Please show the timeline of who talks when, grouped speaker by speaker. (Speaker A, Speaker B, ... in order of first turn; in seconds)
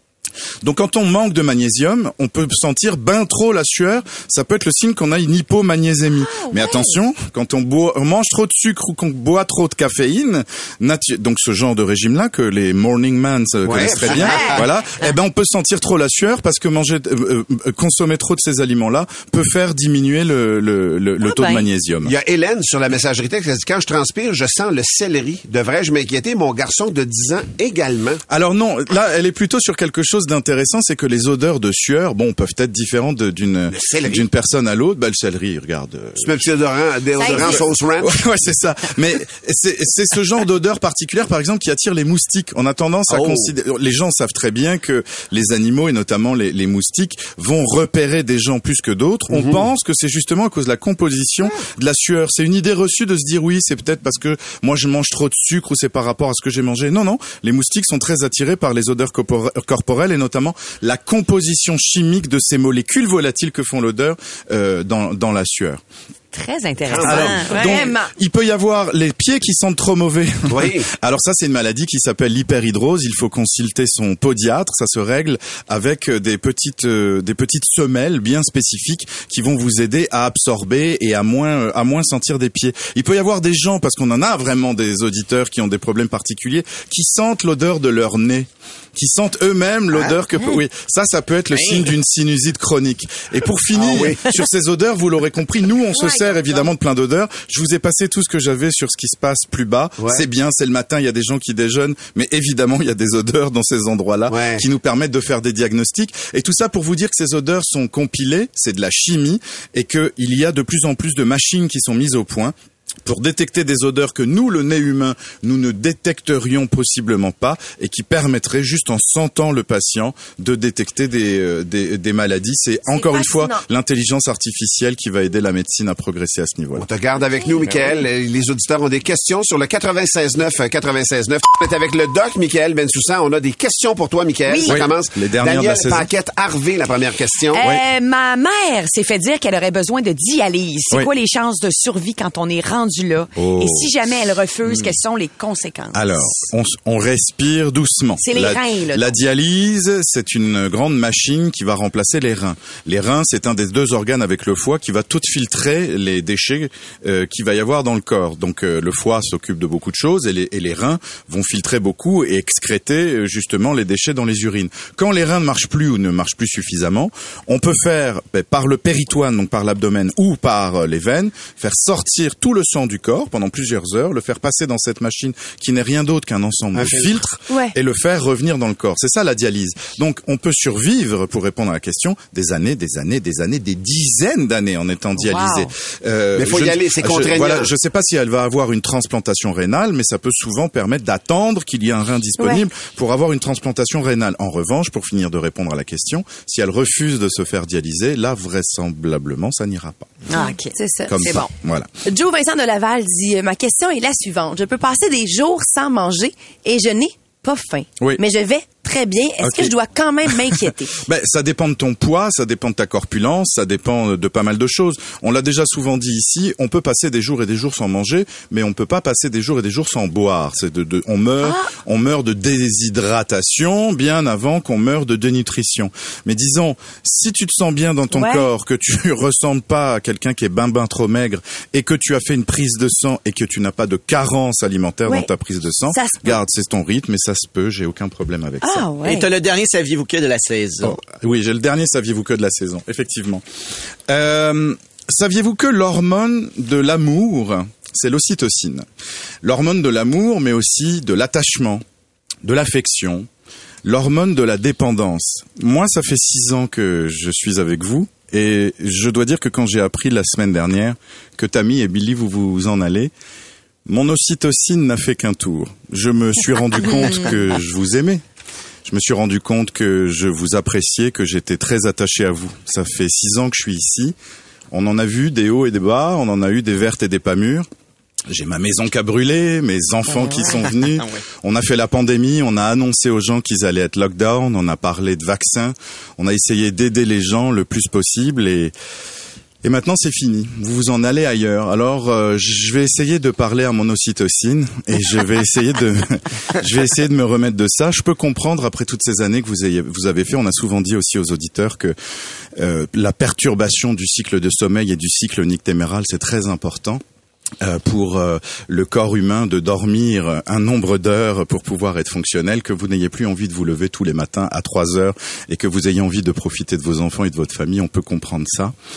Speaker A: 0.6-22.1, 28.3-36.4, 37.3-65.8, 67.0-112.5, 113.0-126.9, 134.6-136.1, 143.4-143.9, 144.7-144.9, 145.9-200.2, 201.1-201.9, 209.4-209.7, 210.2-238.9, 240.8-243.4, 244.1-248.9, 249.4-251.8, 252.4-253.3, 253.8-263.1, 263.9-268.2, 268.9-274.1, 274.7-277.7, 278.3-288.7, 289.6-301.9, 302.6-307.0, 307.6-318.7
Speaker B: 13.6-14.7, 22.0-28.2, 33.7-34.2, 36.2-38.2, 43.1-43.5, 49.3-49.6, 66.9-67.4, 70.5-70.9, 93.8-94.2, 104.3-104.6, 126.8-137.6, 176.8-177.2, 186.4-187.7
Speaker C: 21.2-21.6, 66.3-67.7, 134.5-134.8, 137.5-146.5, 148.2-149.1, 185.2-185.7, 200.3-201.5
Speaker D: 67.5-68.1, 122.9-123.6, 200.3-201.4, 202.1-211.0, 228.1-228.5, 235.9-236.4, 238.6-239.2
Speaker E: 91.5-91.9, 239.0-241.0, 280.9-281.2